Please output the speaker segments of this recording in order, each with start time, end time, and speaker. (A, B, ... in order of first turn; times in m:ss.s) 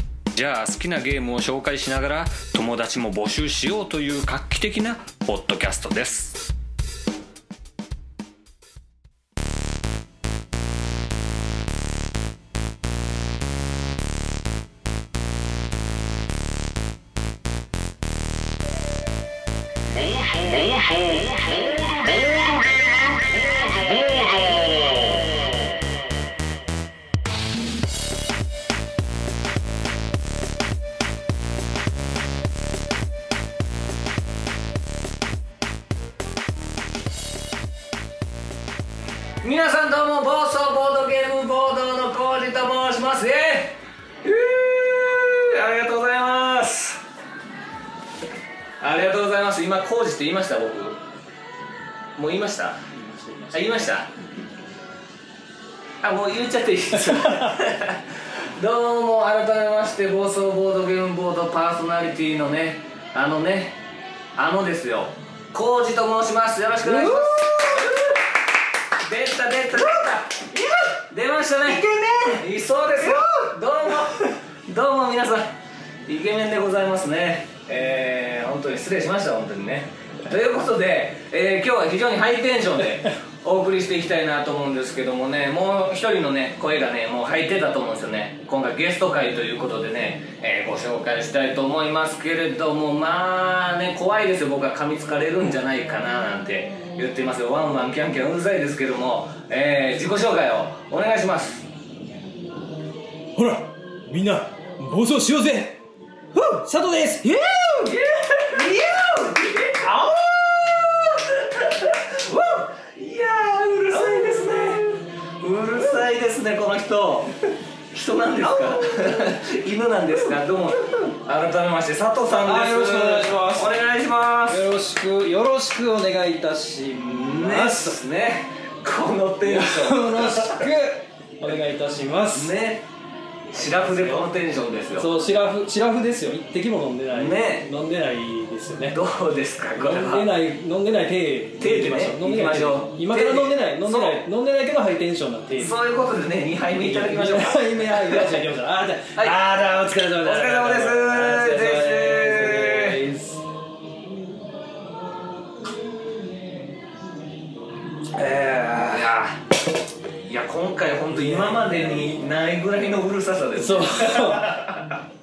0:00.3-0:06.4 A
0:39.4-0:47.0 A
0:48.8-0:51.0 A
0:52.2-0:52.8 A
0:53.0-0:54.0 B
0:53.5-0:54.1 A
0:56.0-1:03.8 A
1:04.4-1:08.1 A
1:06.8-1:08.1 B
1:09.0-1:10.5 A
1:09.8-1:11.0 B
1:11.1-1:11.8 A
1:11.6-1:12.4 B
1:12.4-1:15.5 A
1:13.0-1:13.5 B
1:16.1-1:41.7 A
1:43.4-1:45.8 B
1:46.3-1:49.1 B
1:47.8-1:50.0 A
1:49.8-1:51.2 B
1:51.2-1:54.8 A
1:53.6-1:55.0 B
1:55.4-1:57.3 A
1:55.8-1:56.0 B
1:57.9-2:04.6 A
1:58.4-1:59.4 B
2:00.2-2:01.0 B
2:02.4-2:03.8 B
2:04.5-2:08.0 B
2:07.0-2:10.7 A
2:09.4-2:12.6 B
2:12.3-2:12.8 A
2:13.5-2:14.3 B
2:13.5-2:15.1 A
2:15.0-2:19.0 B
2:17.1-2:17.7 A
2:18.9-2:20.4 A
2:19.8-2:25.8 B
2:21.6-2:24.2 A
2:25.6-2:28.4 A
2:26.8-2:33.4 B
2:29.2-2:29.6 A
2:30.2-2:33.0 A
2:38.2-2:39.1 B
2:38.8-2:39.4 A
2:40.2-2:45.0 A
2:41.1-2:42.2 B
2:43.6-2:44.6 B